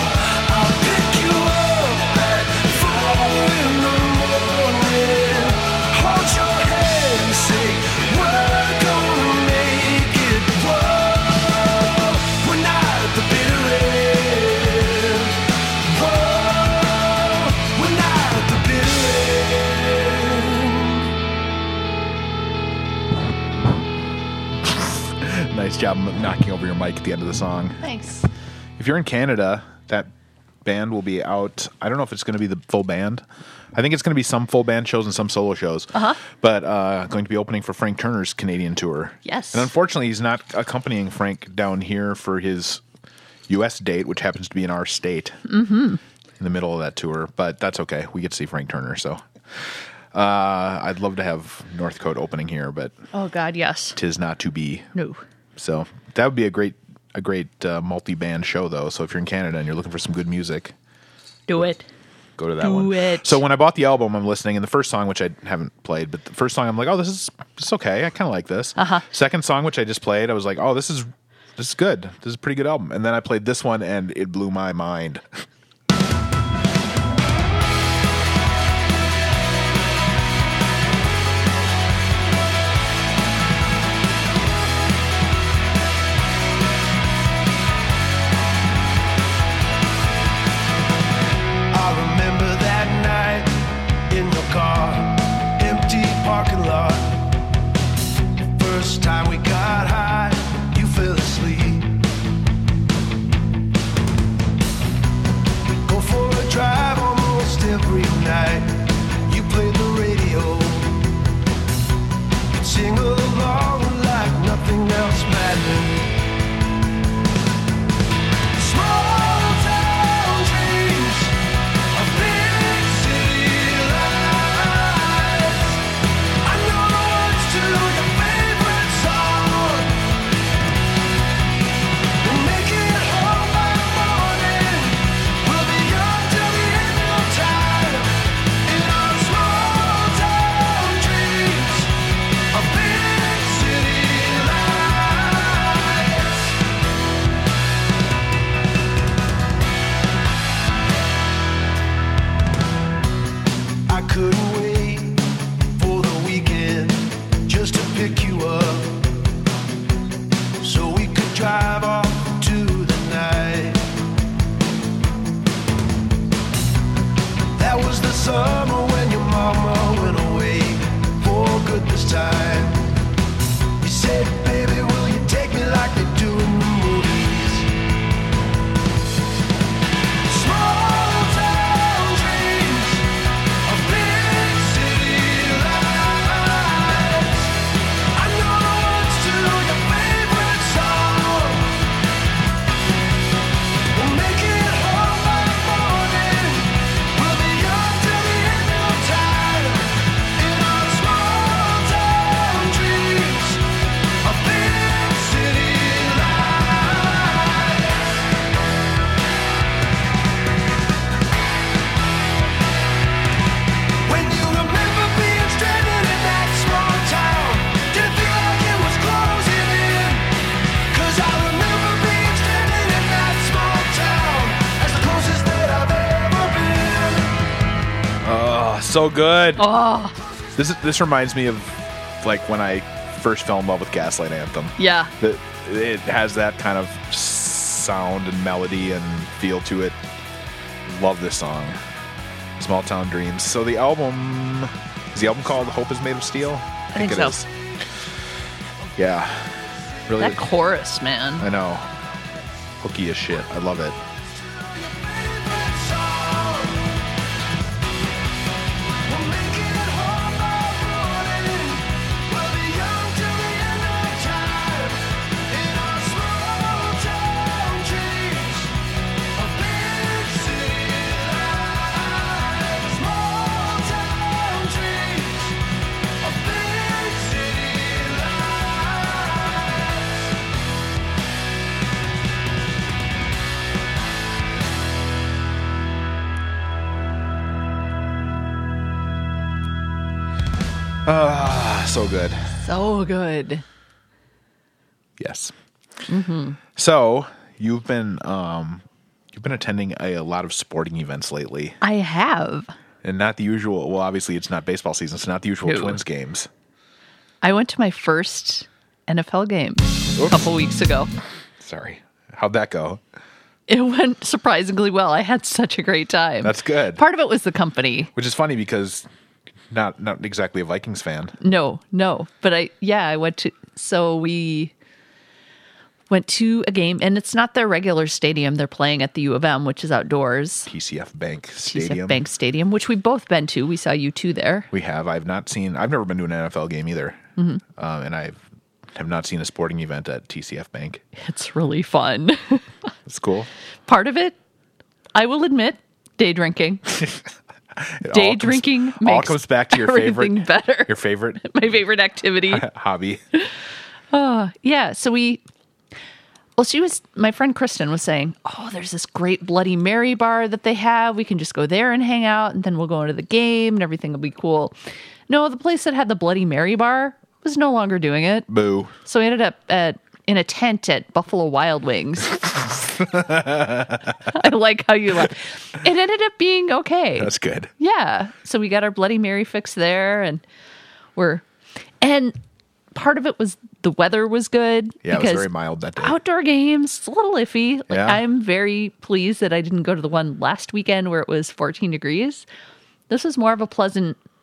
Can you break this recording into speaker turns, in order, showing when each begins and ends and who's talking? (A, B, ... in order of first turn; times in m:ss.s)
0:00.4-0:21.1 A
0:24.7-0:27.8 B
0:27.8-0:28.3 C
0:28.8-0:30.1 B
0:30.6-0:33.2 B
0:33.8-0:42.8 B
0:35.9-0:36.2 C
0:39.2-0:39.7 C
0:43.5-0:45.4 B
0:45.5-0:46.0 C
0:46.4-0:53.0 B
0:53.1-0:54.0 C
0:54.0-0:54.9 B
0:55.0-0:55.2 C
0:55.6-1:00.8 B
1:01.5-1:01.8 C
1:02.4-1:15.2 B
1:02.6-1:03.4 C
1:08.8-1:09.0 C
1:31.7-1:33.6 A
1:34.1-1:37.2 A
1:38.6-1:41.9 A
1:45.9-1:48.7 A
1:49.3-1:51.0 A
1:52.6-1:56.1 A
1:58.6-2:01.4 A
2:01.9-2:05.8 A
2:06.4-2:10.0 A
2:12.2-2:21.9 A
2:22.5-2:26.6 A
2:33.9-2:39.1 A
2:40.6-2:43.8 A
2:47.6-2:52.9 A
2:53.8-2:57.7 A
3:00.2-3:03.1 A
3:03.7-3:07.6 A
3:08.2-3:11.8 A
3:13.9-3:23.6 A
3:24.2-3:28.1 A
3:34.1-3:40.3 A
3:40.9-3:47.4 A
3:48.2-3:49.6 B
3:49.6-3:50.2 C
3:50.6-4:00.0 B
3:54.8-3:55.1 C
4:00.8-4:01.8 B
4:02.6-4:07.5 B
4:06.9-4:07.4 C
4:09.0-4:10.4 B
4:10.2-4:11.5 C
4:11.4-4:11.9 B
4:12.8-4:14.0 B
4:14.6-4:16.9 A
4:19.0-4:28.8 A
4:29.4-4:35.6 A
4:36.2-4:40.2 A
4:51.0-4:52.5 B
4:52.6-4:53.6 C
4:55.2-4:55.5 B
4:56.1-4:56.6 C
4:56.8-5:01.8 B
5:01.8-5:02.7 C
5:03.0-5:06.5 B
5:05.7-5:06.0 C
5:07.4-5:11.1 C
5:10.2-5:10.5 B
5:11.6-5:13.0 B
5:13.7-5:18.1 C
5:16.4-5:17.0 B
5:18.2-5:19.1 B
5:19.7-5:21.4 B
5:21.4-5:24.7 C
5:26.1-5:30.7 C
5:30.7-5:32.2 B
5:31.7-5:34.7 C
5:34.7-5:37.2 B
5:37.4-5:37.6 C
5:37.8-5:38.4 B
5:38.9-5:41.0 B
5:41.2-5:42.7 C
5:43.1-5:43.5 B
5:43.9-5:44.4 C
5:45.2-5:46.8 C
5:47.8-5:51.4 B
5:48.1-5:52.7 C
5:52.5-5:53.2 B
5:54.1-5:55.4 C
5:56.6-6:04.8 C
6:05.3-6:08.5 C
6:08.5-6:08.9 B
6:09.0-6:12.4 C
6:12.5-6:14.2 B
6:14.3-6:20.4 C
6:17.2-6:17.7 B
6:21.2-6:21.4 C
6:22.0-6:22.4 C
6:22.9-6:32.4 C
6:25.0-6:26.2 B
6:27.9-6:28.2 B
6:33.1-6:34.2 C